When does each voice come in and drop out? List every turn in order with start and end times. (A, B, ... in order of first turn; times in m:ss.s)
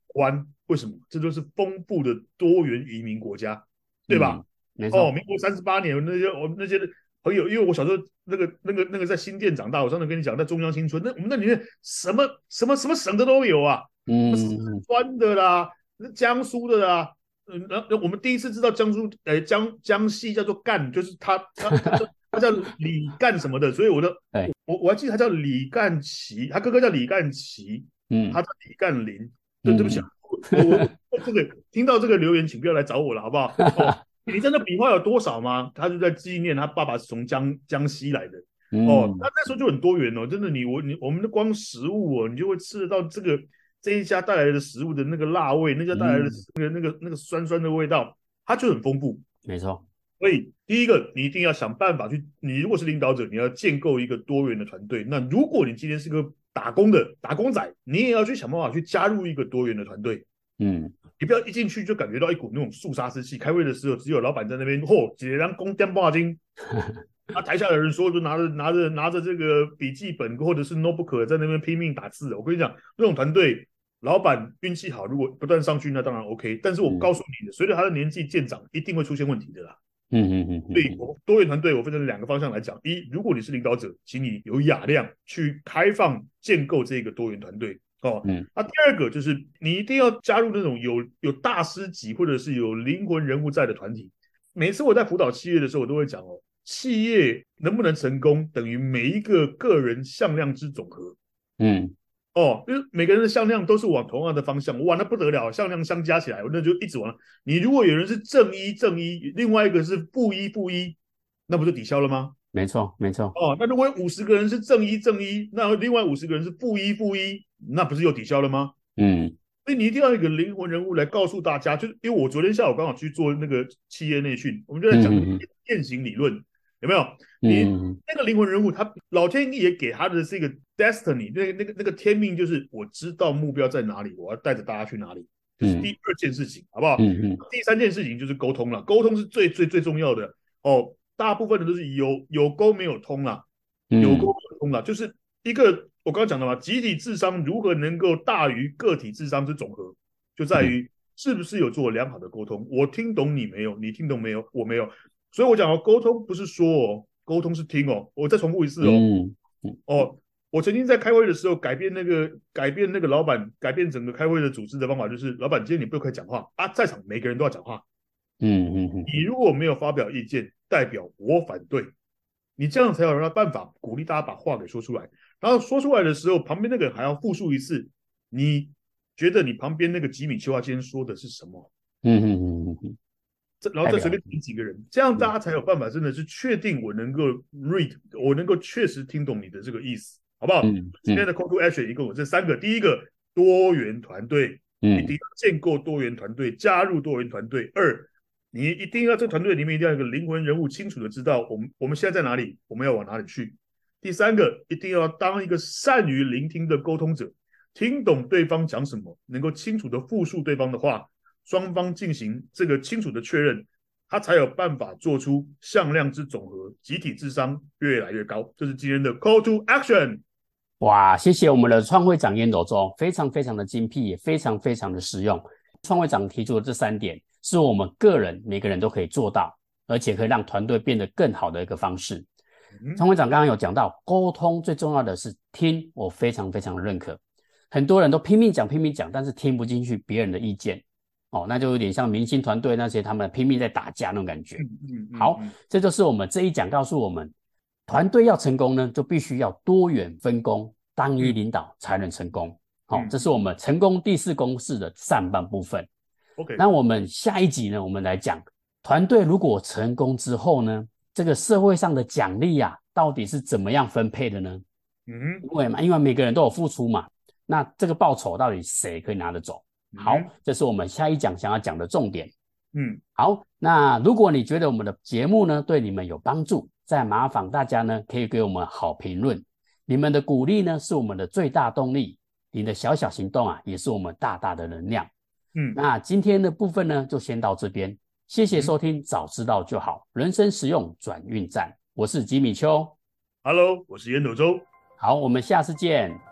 0:00.1-0:49.2 A
0:04.1-0:05.1 B
0:14.1-0:14.8 B
0:21.7-0:22.0 B
0:28.1-0:28.4 B
0:29.6-0:30.6 B
0:38.7-0:39.3 B
0:45.9-0:46.4 B
0:49.4-0:49.8 B
0:50.2-1:00.2 A
1:00.6-1:00.9 B
1:01.2-1:06.4 A
1:07.3-1:19.8 A
1:20.1-1:21.0 B
1:20.7-1:41.2 A
1:41.6-1:41.9 B
1:42.3-1:51.0 A
1:51.5-1:52.3 A
1:52.5-1:53.3 B
1:53.3-1:58.8 A
1:59.0-1:59.3 B
1:59.6-2:23.4 A
2:04.9-2:05.4 B
2:07.4-2:08.0 B
2:15.6-2:15.9 B
2:17.0-2:17.4 B
2:23.9-2:24.3 B
2:24.0-2:39.0 A
2:38.8-2:39.8 B
2:39.9-2:47.8 A
2:48.4-2:49.1 B
2:49.0-2:51.9 A
2:52.6-3:01.7 A
3:02.0-3:03.0 B
3:03.6-3:40.2 A
3:03.8-3:04.2 B
3:10.6-3:11.3 B
3:14.8-3:15.1 B
3:40.8-3:52.3 B
3:52.8-3:53.0 A
3:53.0-3:57.2 B
3:57.7-4:04.6 B
4:04.6-4:05.6 A
4:05.1-4:07.3 B
4:07.9-4:15.9 B
4:12.9-4:13.2 A
4:16.4-4:16.6 A
4:16.6-4:24.6 B
4:25.1-4:25.4 A
4:25.4-4:32.3 B
4:29.9-4:30.3 A
4:32.7-4:33.0 A
4:33.2-4:45.1 B
4:45.5-4:45.8 A
4:45.8-4:53.0 B
4:53.4-4:54.7 A
4:55.0-4:56.2 B